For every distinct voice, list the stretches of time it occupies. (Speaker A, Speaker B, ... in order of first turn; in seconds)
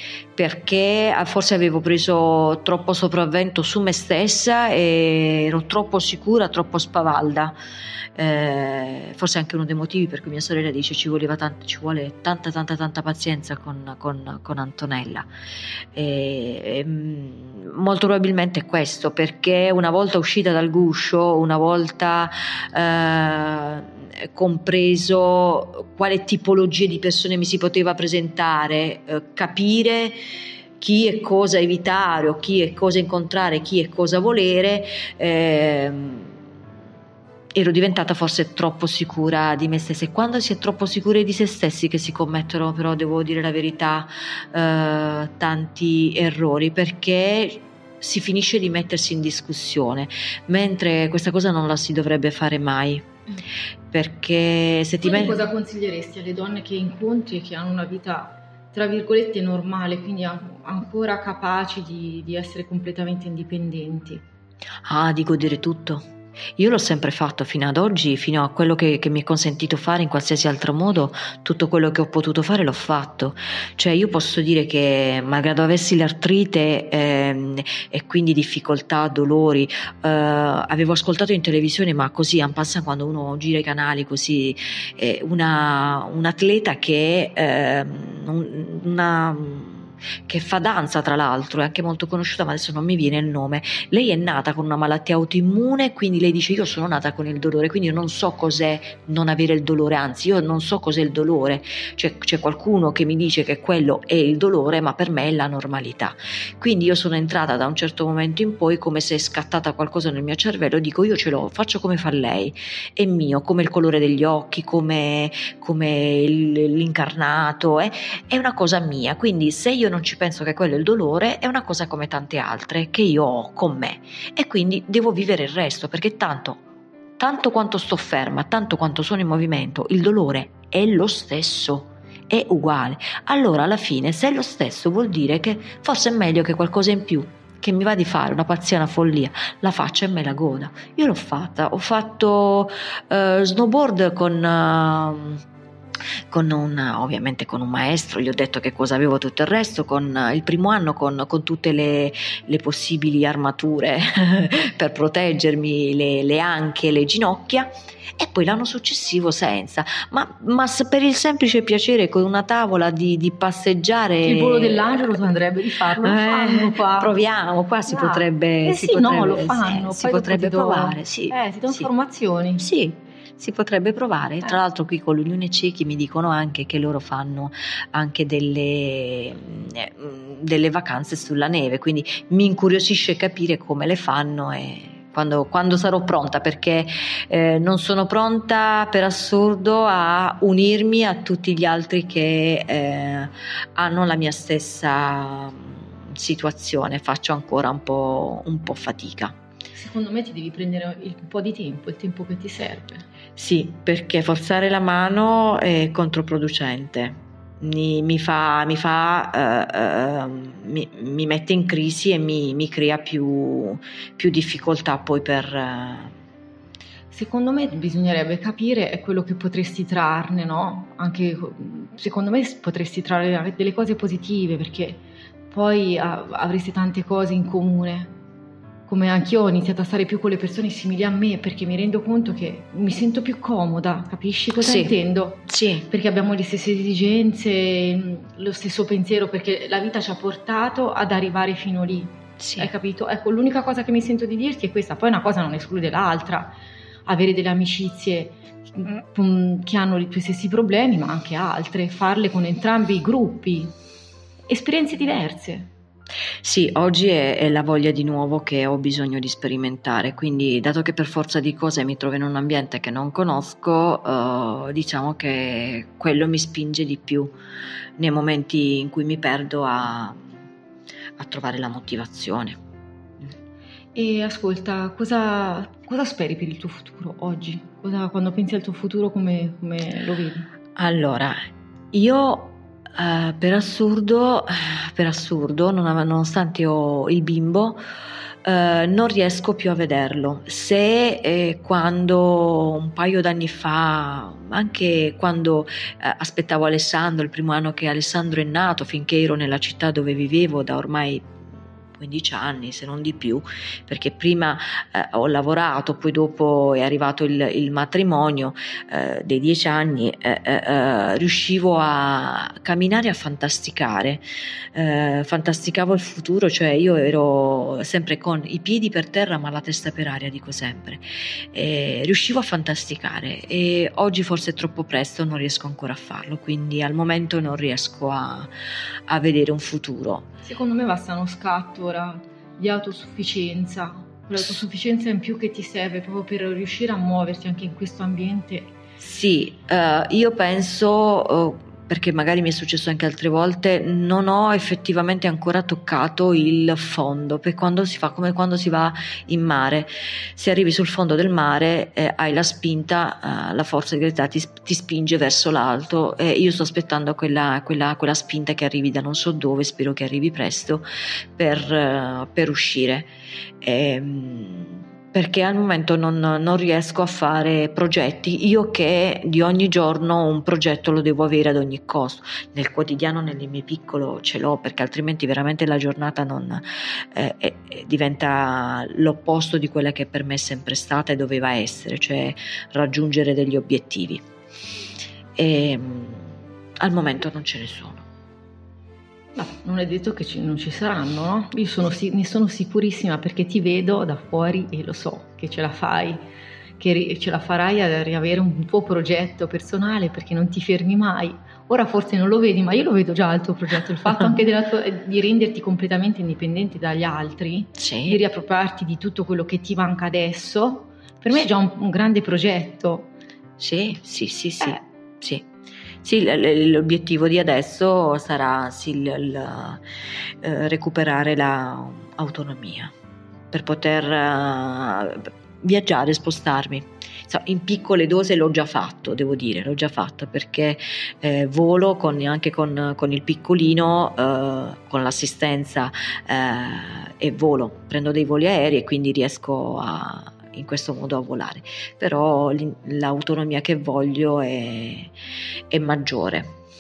Speaker A: 0.4-7.6, 8.2-15.3, 15.9-30.2, 30.8-36.4, 37.5-53.1, 53.9-55.5, 64.8-126.6, 127.2-145.4, 146.3-165.2, 166.0-171.9, 172.6-199.3, 203.4-216.1, 234.6-235.9, 242.4-242.7, 256.4-267.3, 268.0-270.2, 271.2-272.6, 280.8-281.4, 281.9-287.8, 288.4-301.4, 302.0-328.5, 329.1-330.3, 339.0-363.1, 363.6-384.2, 385.4-388.1, 407.8-408.2, 413.6-415.5, 416.0-419.8, 420.4-422.9, 423.5-445.1, 445.7-446.6
Speaker B: 55.0-64.2, 164.2-167.2, 167.9-172.6, 199.7-203.1, 217.1-228.1, 228.9-253.7, 254.5-255.7, 273.9-280.5, 330.4-338.7, 389.4-396.2, 396.8-413.1